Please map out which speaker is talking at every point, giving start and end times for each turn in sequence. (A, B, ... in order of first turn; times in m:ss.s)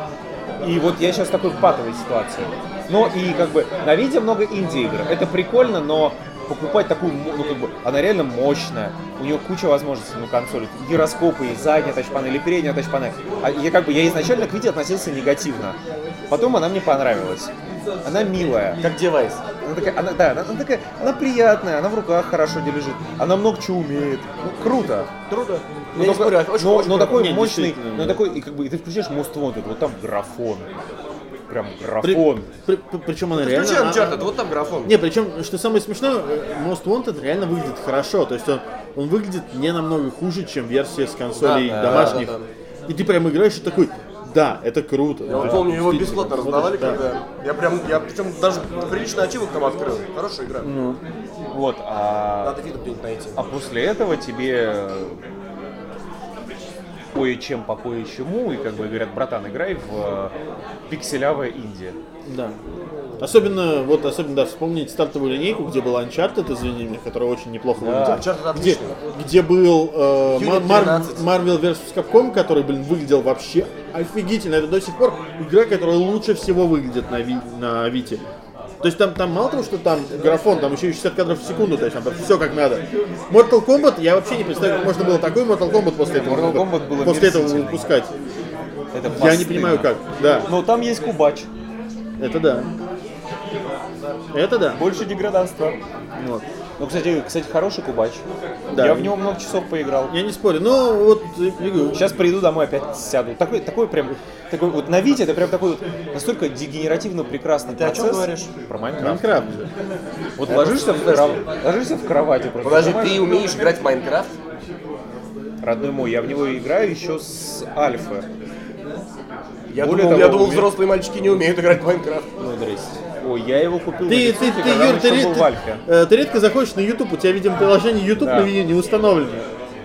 0:00.6-0:15.8 A
0:16.3-0:17.5 A
0:18.0-0:18.8 A
0:18.8-0:19.4 B
0:19.6-0:30.7 A
0:26.0-0:27.3 B
0:27.1-0:28.2 C
0:31.5-0:32.5 A
0:32.0-0:34.2 C
0:33.4-0:35.0 B
0:34.8-0:42.3 C
0:41.4-0:42.5 B
0:41.6-0:42.3 A
0:42.9-0:47.0 C
0:45.3-0:50.7 B
0:50.6-0:51.0 C
0:51.5-0:52.6 A
0:52.4-0:53.4 B
0:53.4-0:55.2 A
0:57.1-1:00.3 A
1:00.9-1:02.0 A
1:02.3-1:02.6 C
1:03.2-1:18.2 C
1:07.8-1:08.2 A
1:07.9-1:09.0 B
1:10.3-1:11.3 B
1:18.8-1:28.1 C
1:26.2-1:27.9 A
1:28.9-1:29.9 A
1:29.1-1:30.5 C
1:30.4-1:31.5 A
1:32.2-1:32.7 C
1:34.3-1:34.8 C
1:34.8-1:35.8 A
1:36.2-1:36.4 C
1:36.8-1:38.2 A
1:38.7-1:39.1 C
1:38.8-1:40.1 A
1:40.1-1:42.1 C
1:41.9-1:49.2 A
1:47.8-1:48.5 B
1:49.0-1:49.7 C
1:50.4-1:53.4 A
1:50.5-1:51.4 B
1:52.6-1:54.3 B
1:55.6-1:58.3 A
1:59.7-2:02.3 B
1:59.8-2:00.7 A
2:02.4-2:05.8 A
2:04.1-2:09.5 C
2:08.2-2:08.5 A